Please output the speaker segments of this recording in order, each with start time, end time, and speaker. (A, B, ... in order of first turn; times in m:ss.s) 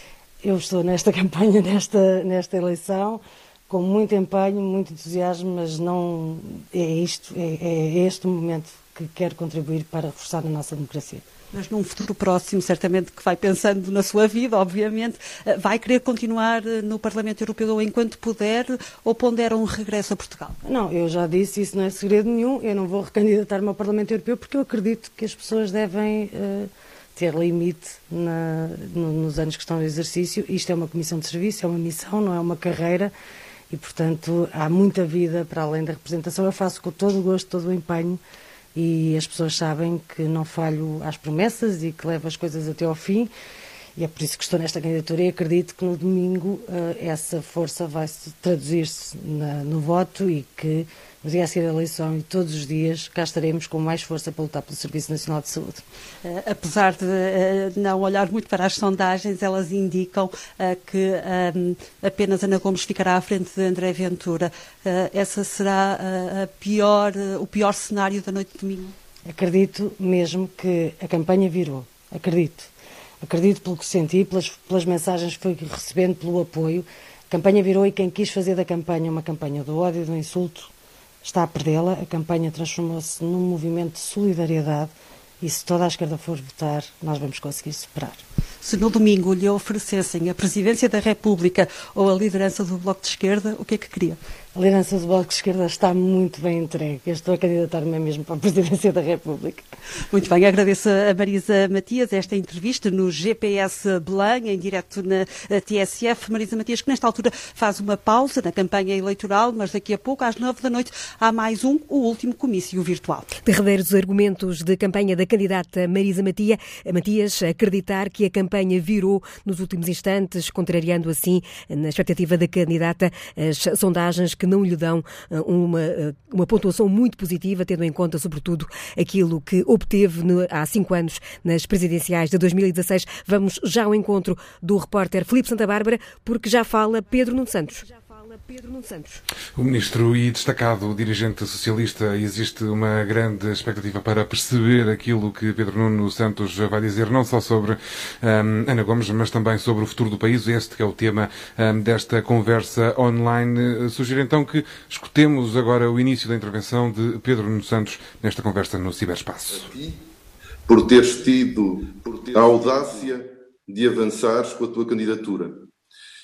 0:00.4-0:11.3 A
0:11.5-0:20.6 B
0:20.6-0:33.1 A
0:33.7-0:38.2 A
0:38.7-0:43.3 A
0:44.0-0:55.8 A
0:56.2-1:08.9 B
1:09.3-1:12.7 A
1:13.2-1:20.7 A
1:21.2-1:28.2 A
1:28.6-1:34.2 B
1:34.5-1:39.6 A
1:40.1-1:53.3 B
1:53.4-2:19.2 C
2:19.6-2:39.7 D
2:39.5-2:40.1 E
2:40.7-2:45.7 E